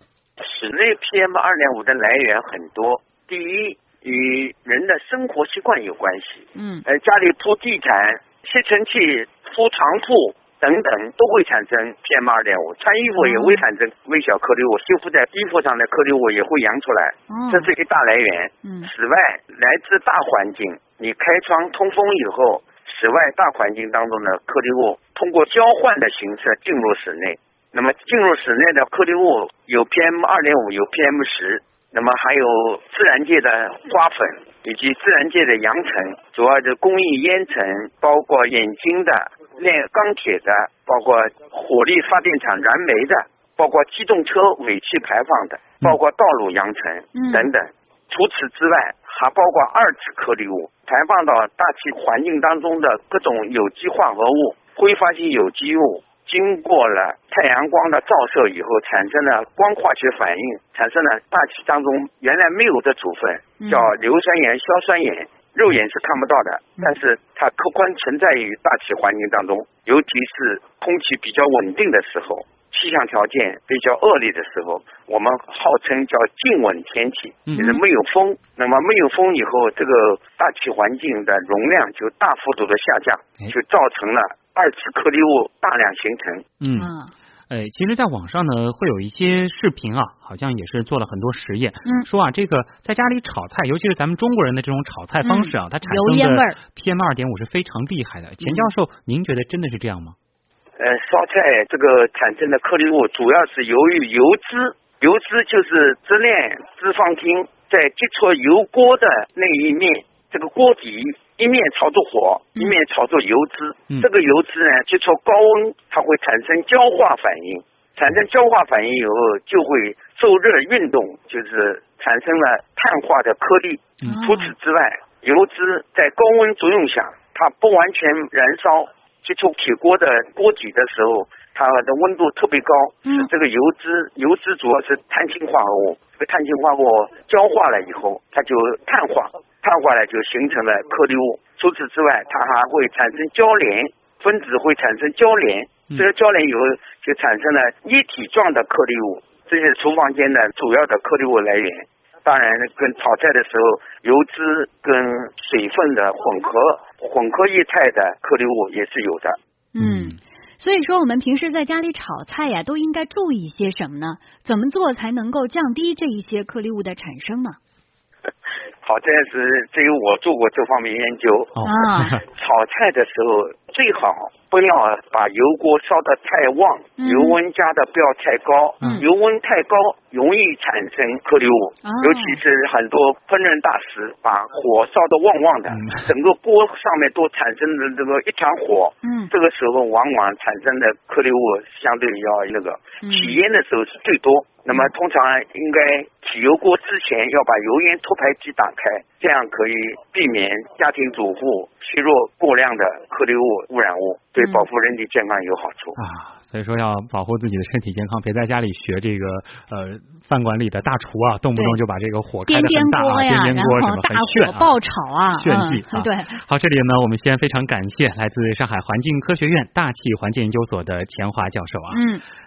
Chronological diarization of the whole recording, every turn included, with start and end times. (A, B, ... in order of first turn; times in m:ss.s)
0:00.4-1:26.4 A
0:06.5-0:06.8 B
0:13.2-0:13.6 B
0:17.3-0:17.7 B
0:18.6-0:18.9 B
0:47.1-0:47.5 B
1:03.6-1:03.9 B
1:26.6-1:26.9 C
1:26.7-1:27.1 B
1:27.5-1:40.2 C
1:35.2-1:36.6 B
1:38.4-1:38.7 B
1:40.8-2:39.4 A
2:04.0-2:04.5 B
2:39.7-2:47.6 B
2:39.8-2:40.2 C
2:48.8-2:51.6 A
2:51.6-2:52.2 C
2:51.6-2:52.2 B
2:52.2-3:26.0 A
2:57.0-2:57.4 B
2:58.8-2:59.0 C
3:01.8-3:02.4 B
3:05.7-3:06.0 C
3:09.0-3:09.3 B
3:13.0-3:13.4 B
3:26.0-3:34.8 C
3:32.4-3:36.4 B
3:35.3-3:42.0 C
3:41.9-3:42.2 B